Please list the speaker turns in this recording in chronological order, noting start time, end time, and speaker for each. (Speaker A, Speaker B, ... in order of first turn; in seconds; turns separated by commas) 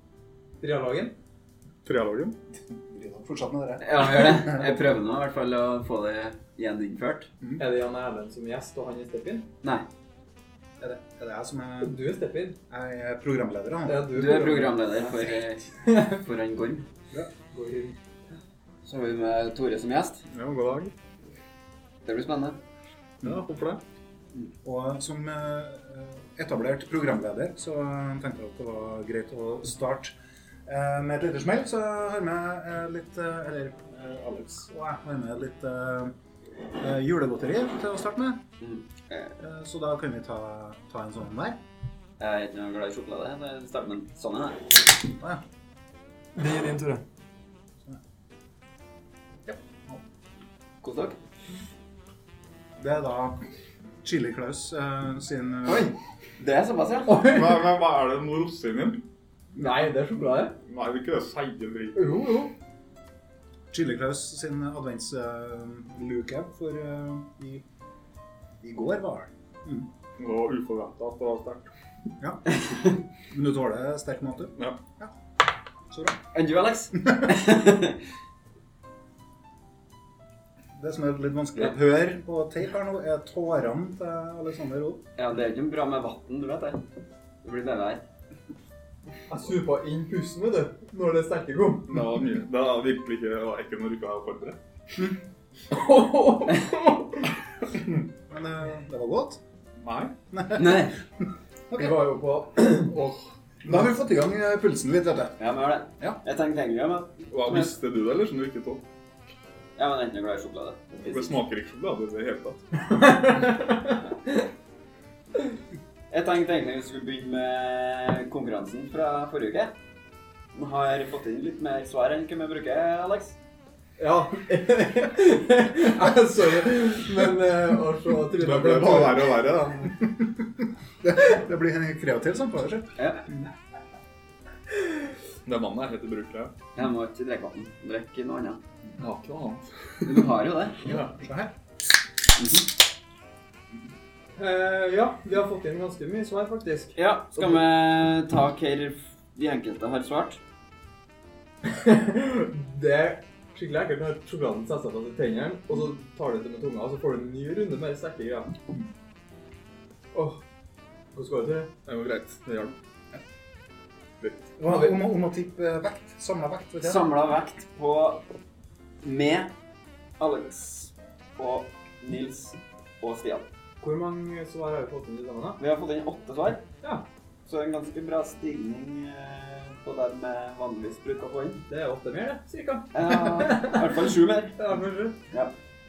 Speaker A: 0.6-1.1, Speaker B: 1.8-2.3, Speaker C: 2.8-4.7, Speaker D: 3.8-7.3, Speaker A: 7.6-9.5, Speaker C: 10.8-12.0, Speaker A: 11.8-12.6, Speaker C: 12.7-14.2, Speaker A: 13.8-14.8, Speaker D: 14.1-16.9, Speaker A: 15.8-16.2, Speaker A: 17.5-18.0, Speaker D: 18.8-20.2, Speaker B: 20.3-20.9, Speaker D: 22.0-22.6, Speaker B: 23.2-23.8, Speaker C: 24.6-30.1, Speaker C: 30.7-36.1, Speaker C: 36.7-38.4, Speaker D: 38.6-39.4, Speaker C: 39.4-41.6, Speaker D: 42.2-44.9, Speaker A: 46.4-47.0, Speaker C: 49.5-50.0, Speaker D: 50.8-51.2, Speaker C: 52.8-53.4, Speaker C: 54.0-55.9, Speaker D: 55.6-57.1, Speaker A: 57.1-57.6, Speaker B: 57.2-59.0, Speaker A: 59.5-60.5, Speaker B: 60.6-62.1, Speaker A: 61.9-62.5, Speaker C: 63.7-67.6, Speaker C: 68.6-69.9, Speaker B: 70.2-71.7, Speaker C: 72.2-75.1, Speaker D: 72.5-72.9, Speaker C: 75.9-76.2, Speaker D: 76.3-78.0, Speaker C: 80.7-85.0, Speaker D: 85.2-86.8, Speaker D: 87.4-88.0, Speaker A: 89.3-92.0, Speaker B: 91.9-94.6, Speaker A: 95.7-97.3, Speaker C: 98.1-99.4, Speaker B: 99.8-100.1, Speaker C: 100.3-100.9, Speaker D: 100.5-100.9, Speaker C: 101.7-102.1, Speaker A: 101.7-102.9, Speaker B: 102.9-103.2, Speaker C: 103.6-105.4, Speaker D: 105.4-107.7, Speaker B: 107.3-108.8, Speaker D: 109.8-111.4, Speaker B: 111.0-112.9, Speaker A: 112.9-114.4, Speaker D: 116.1-119.7, Speaker D: 120.5-123.4, Speaker A: 124.0-129.4, Speaker B: 128.4-130.0, Speaker C: 130.2-130.4, Speaker C: 131.0-133.5, Speaker D: 133.0-133.2, Speaker B: 135.4-136.5, Speaker D: 136.8-138.6, Speaker B: 139.0-140.3, Speaker D: 140.1-141.0, Speaker C: 140.8-141.5, Speaker D: 142.4-142.7, Speaker A: 144.4-147.6, Speaker D: 146.9-150.4, Speaker A: 151.6-158.5, Speaker A: 160.1-160.4, Speaker A: 161.1-161.7, Speaker B: 161.8-162.7, Speaker B: 164.2-164.5, Speaker C: 164.6-167.1, Speaker A: 164.7-164.9, Speaker D: 166.8-168.2, Speaker D: 169.0-169.5, Speaker D: 170.2-173.5, Speaker A: 173.8-175.6, Speaker D: 175.6-176.6, Speaker D: 177.4-181.6, Speaker A: 181.7-185.2, Speaker D: 182.9-184.6